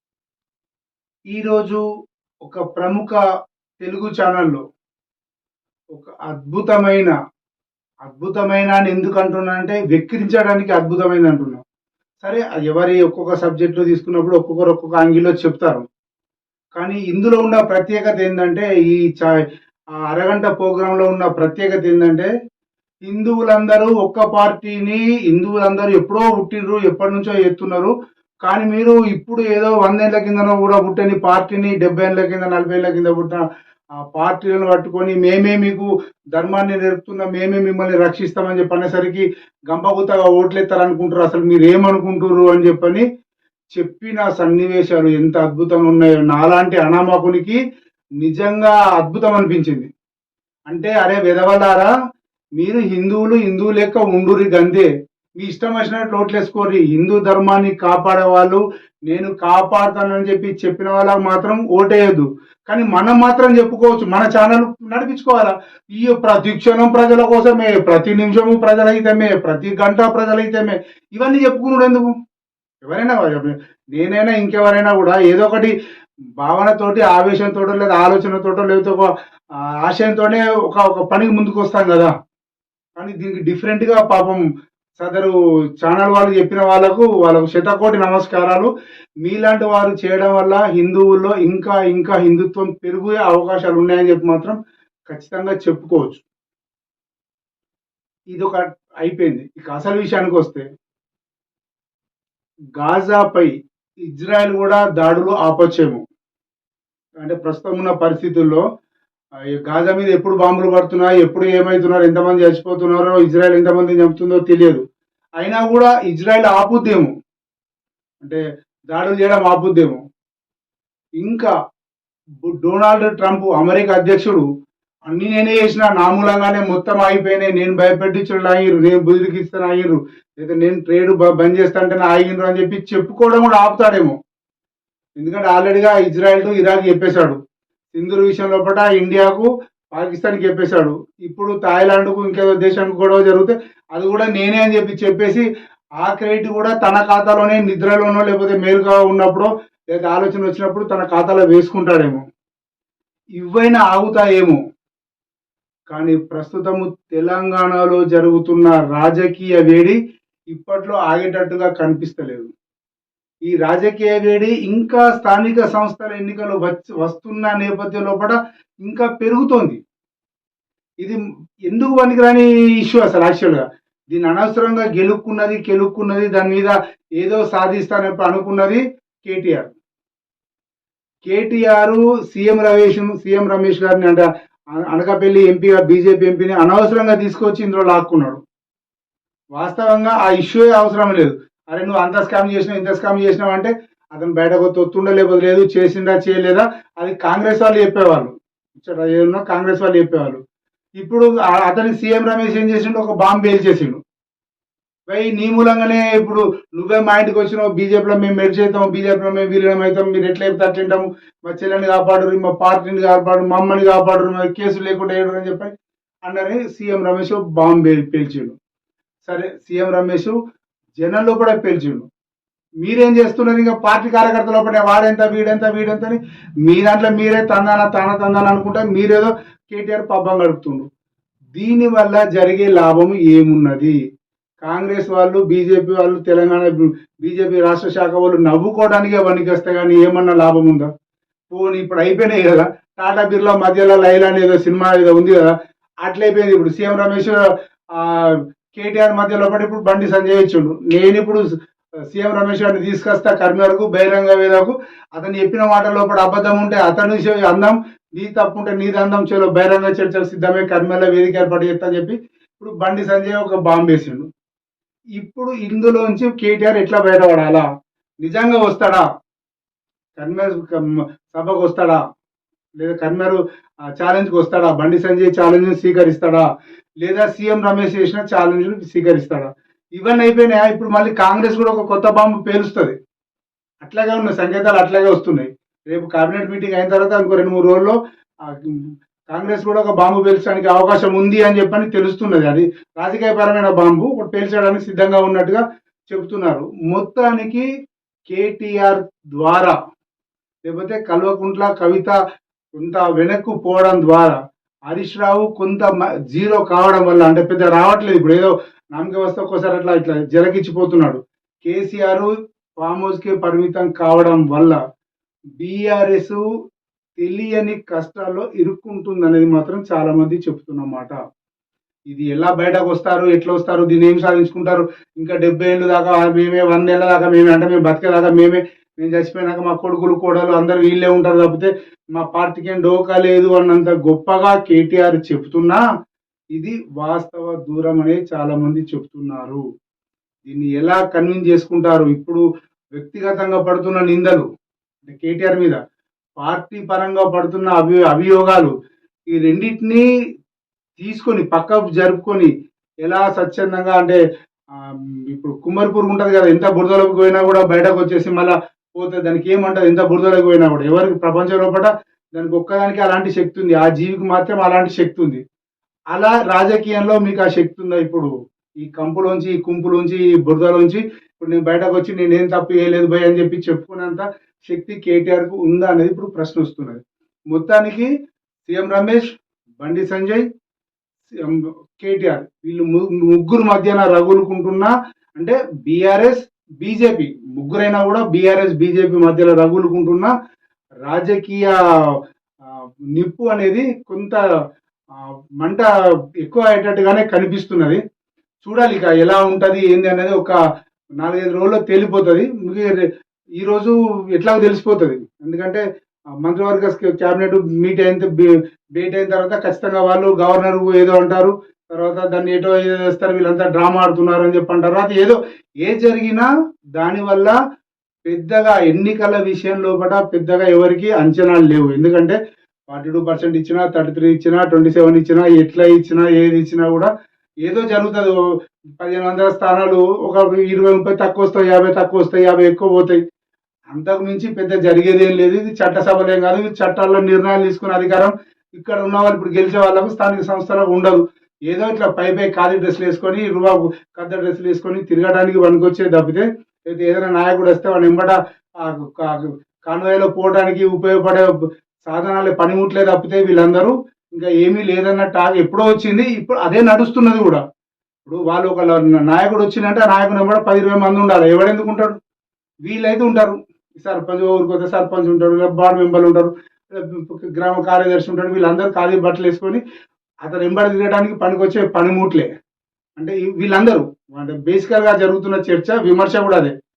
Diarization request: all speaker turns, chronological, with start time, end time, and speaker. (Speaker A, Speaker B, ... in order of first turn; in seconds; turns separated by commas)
Speaker A: 1.3-1.8, Speaker A: 2.4-3.2, Speaker A: 3.8-4.6, Speaker A: 5.9-7.1, Speaker A: 8.0-11.6, Speaker A: 12.2-15.8, Speaker A: 16.8-19.3, Speaker A: 20.1-22.3, Speaker A: 23.1-27.9, Speaker A: 28.4-33.4, Speaker A: 34.0-43.0, Speaker A: 43.8-47.6, Speaker A: 48.2-49.9, Speaker A: 50.7-51.9, Speaker A: 52.6-54.9, Speaker A: 55.4-72.1, Speaker A: 72.8-75.7, Speaker A: 76.4-79.1, Speaker A: 79.8-82.1, Speaker A: 83.0-84.4, Speaker A: 85.0-88.7, Speaker A: 89.2-94.6, Speaker A: 95.1-96.2, Speaker A: 98.3-100.7, Speaker A: 102.8-103.5, Speaker A: 104.1-106.0, Speaker A: 107.2-108.6, Speaker A: 109.6-114.8, Speaker A: 115.4-117.1, Speaker A: 118.9-120.0, Speaker A: 121.2-121.5, Speaker A: 122.4-124.4, Speaker A: 125.1-134.2, Speaker A: 135.2-137.4, Speaker A: 137.9-145.4, Speaker A: 146.0-152.2, Speaker A: 153.4-154.6, Speaker A: 155.9-160.0, Speaker A: 160.5-162.5, Speaker A: 163.5-169.8, Speaker A: 171.7-179.7, Speaker A: 181.2-184.2, Speaker A: 184.8-188.4, Speaker A: 189.6-200.4, Speaker A: 201.0-204.0, Speaker A: 205.1-215.7, Speaker A: 216.3-218.6, Speaker A: 219.2-220.3, Speaker A: 221.0-222.1, Speaker A: 222.8-230.8, Speaker A: 231.6-233.9, Speaker A: 234.6-236.7, Speaker A: 237.2-240.9, Speaker A: 241.5-245.5, Speaker A: 246.0-247.4, Speaker A: 247.9-251.4, Speaker A: 252.1-264.2, Speaker A: 265.2-267.6, Speaker A: 268.2-269.0, Speaker A: 270.2-272.0, Speaker A: 272.8-273.4, Speaker A: 273.9-276.4, Speaker A: 277.0-282.9, Speaker A: 283.8-287.9, Speaker A: 288.5-297.6, Speaker A: 298.3-299.7, Speaker A: 300.7-302.1, Speaker A: 302.8-304.3, Speaker A: 304.9-312.3, Speaker A: 312.8-314.8, Speaker A: 315.6-316.4, Speaker A: 317.2-321.1, Speaker A: 322.1-335.8, Speaker A: 336.6-339.6, Speaker A: 340.4-342.4, Speaker A: 342.9-344.4, Speaker A: 345.0-345.8, Speaker A: 346.4-348.7, Speaker A: 349.3-350.0, Speaker A: 351.0-352.5, Speaker A: 353.1-354.2, Speaker A: 354.7-365.4, Speaker A: 366.1-368.3, Speaker A: 368.8-378.1, Speaker A: 378.7-379.3, Speaker A: 379.8-380.4, Speaker A: 381.4-390.3, Speaker A: 391.1-391.7, Speaker A: 393.1-394.4, Speaker A: 395.6-395.9, Speaker A: 396.4-398.0, Speaker A: 398.6-400.5, Speaker A: 401.2-405.8, Speaker A: 406.4-408.3, Speaker A: 408.9-416.4, Speaker A: 417.0-417.5, Speaker A: 418.3-422.4, Speaker A: 422.9-427.1, Speaker A: 427.6-428.4, Speaker A: 429.0-433.2, Speaker A: 433.9-451.5, Speaker A: 452.1-457.6, Speaker A: 458.2-462.1, Speaker A: 462.9-469.8, Speaker A: 470.4-472.5, Speaker A: 473.2-476.7